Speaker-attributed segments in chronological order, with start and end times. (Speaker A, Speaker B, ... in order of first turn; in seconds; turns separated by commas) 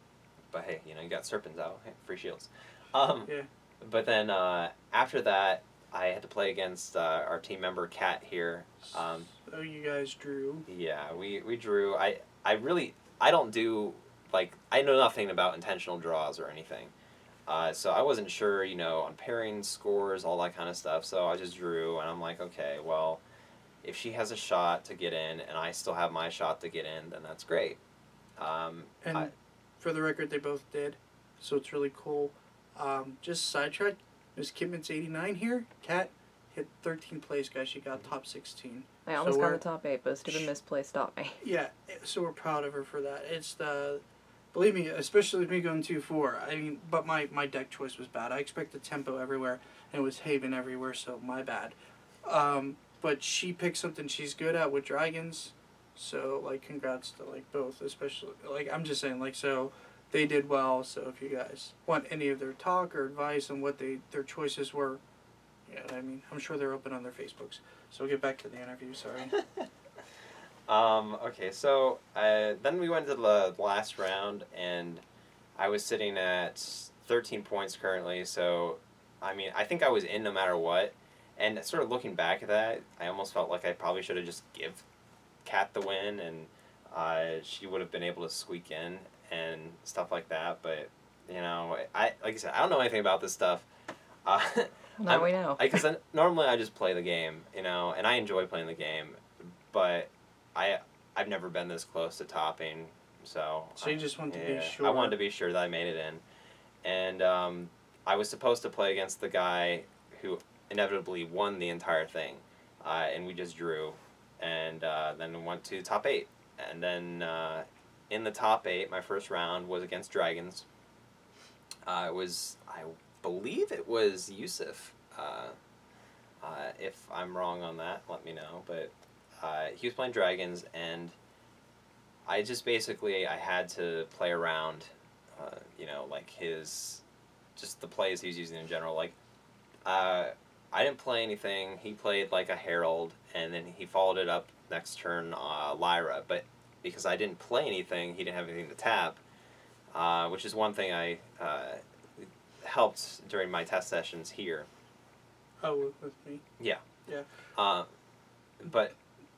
Speaker A: 0.5-9.3, Speaker B: 8.8-10.7, Speaker A: 10.7-16.9, Speaker A: 17.5-23.2, Speaker A: 23.8-27.8, Speaker A: 28.4-29.3, Speaker B: 29.0-39.6, Speaker C: 39.1-41.4, Speaker B: 41.4-44.0, Speaker B: 44.5-65.0, Speaker B: 65.7-69.4, Speaker A: 70.7-75.0, Speaker A: 75.6-84.8, Speaker A: 85.4-93.7, Speaker A: 94.2-106.2, Speaker C: 95.0-95.8, Speaker B: 103.8-105.2, Speaker A: 106.8-120.7, Speaker A: 121.9-125.6, Speaker A: 126.4-131.2, Speaker A: 132.3-137.0, Speaker A: 137.6-139.2, Speaker A: 139.8-149.2, Speaker A: 149.9-154.7, Speaker B: 155.6-156.4, Speaker A: 157.5-157.9, Speaker A: 158.6-158.9